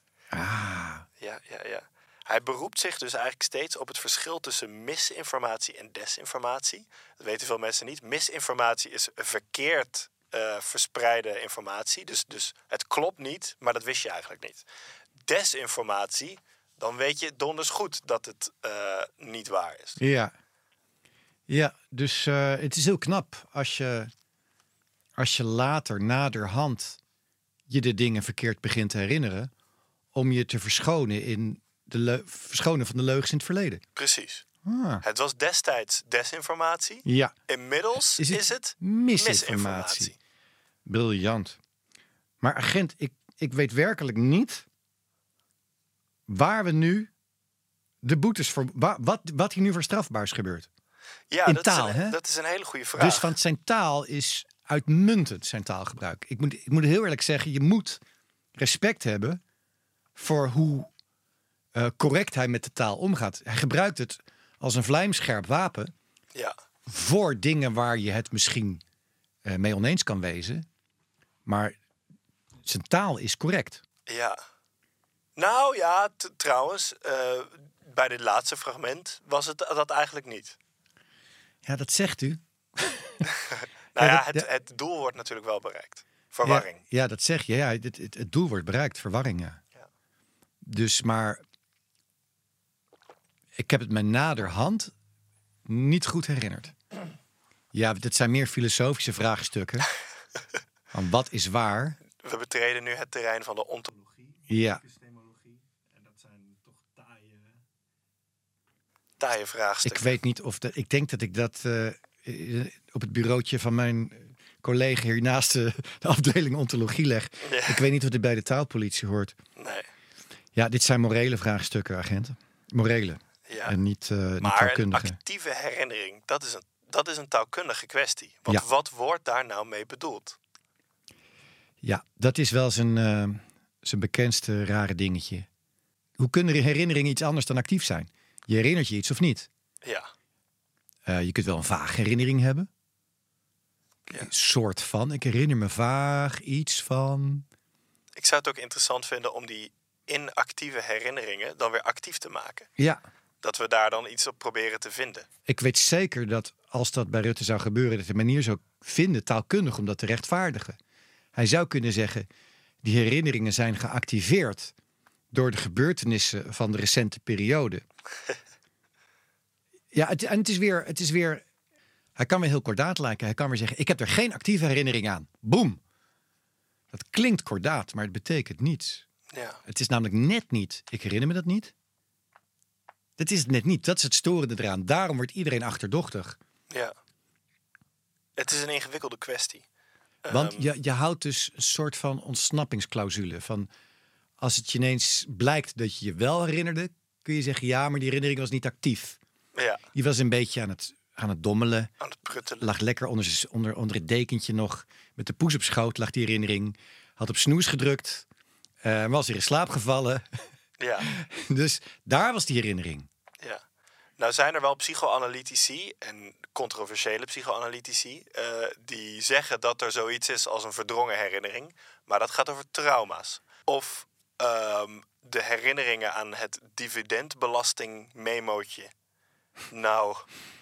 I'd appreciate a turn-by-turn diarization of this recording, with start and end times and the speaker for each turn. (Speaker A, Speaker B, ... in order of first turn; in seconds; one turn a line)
Speaker A: 0.3-1.0
Speaker B: 1.2-14.6
Speaker B: 15.2-20.0
Speaker A: 20.0-20.3
Speaker A: 21.5-24.1
Speaker A: 25.2-27.0
Speaker A: 27.7-29.5
Speaker A: 30.1-33.8
Speaker B: 34.0-34.4
Speaker A: 34.6-35.0
Speaker B: 35.0-40.1
Speaker A: 37.0-37.3
Speaker A: 38.0-40.1
Speaker A: 40.9-41.6
Speaker A: 42.4-44.6
Speaker A: 46.3-47.1
Speaker A: 48.0-50.7
Speaker B: 51.3-53.3
Speaker A: 51.4-52.2
Speaker A: 53.0-58.0
Speaker A: 58.6-59.4
Speaker A: 60.1-60.9
Speaker A: 61.7-65.9
Speaker A: 66.9-68.8
Speaker A: 69.4-70.7
Speaker A: 71.5-71.8
Speaker A: 72.6-73.8
Speaker B: 74.1-74.4
Speaker B: 75.3-80.6
Speaker A: 81.6-83.2
Speaker B: 83.3-86.8
Speaker A: 84.0-84.5
Speaker A: 86.4-89.6
Speaker A: 90.6-91.4
Speaker A: 93.6-94.9
Speaker A: 95.7-96.7
Speaker A: 97.7-99.9
Speaker A: 100.9-102.0
Speaker B: 102.2-107.5
Speaker A: 104.5-104.8
Speaker B: 109.2-110.2
Speaker A: 109.8-119.3
Speaker B: 117.4-117.8
Speaker B: 119.6-119.8
Speaker A: 120.5-125.2
Speaker B: 123.5-123.8
Speaker B: 124.4-130.4
Speaker A: 131.8-135.5
Speaker A: 136.2-139.5
Speaker B: 139.8-140.1
Speaker A: 141.1-142.7
Speaker A: 144.1-147.4
Speaker B: 148.2-152.7
Speaker B: 153.4-155.3
Speaker A: 155.5-160.8
Speaker A: 161.3-162.3
Speaker A: 162.8-164.7
Speaker A: 165.3-167.8
Speaker A: 169.9-171.4
Speaker A: 172.2-175.8
Speaker A: 176.9-179.0
Speaker B: 179.3-179.6
Speaker A: 179.7-181.7
Speaker A: 183.2-186.4
Speaker B: 188.4-189.6
Speaker B: 190.2-190.7
Speaker A: 190.3-193.7
Speaker A: 194.4-199.2
Speaker B: 199.5-199.8
Speaker A: 199.9-201.9
Speaker B: 202.0-202.7
Speaker A: 202.6-208.2
Speaker A: 208.8-210.2
Speaker B: 210.8-211.1
Speaker A: 211.0-213.1
Speaker B: 214.2-228.9
Speaker B: 229.7-230.3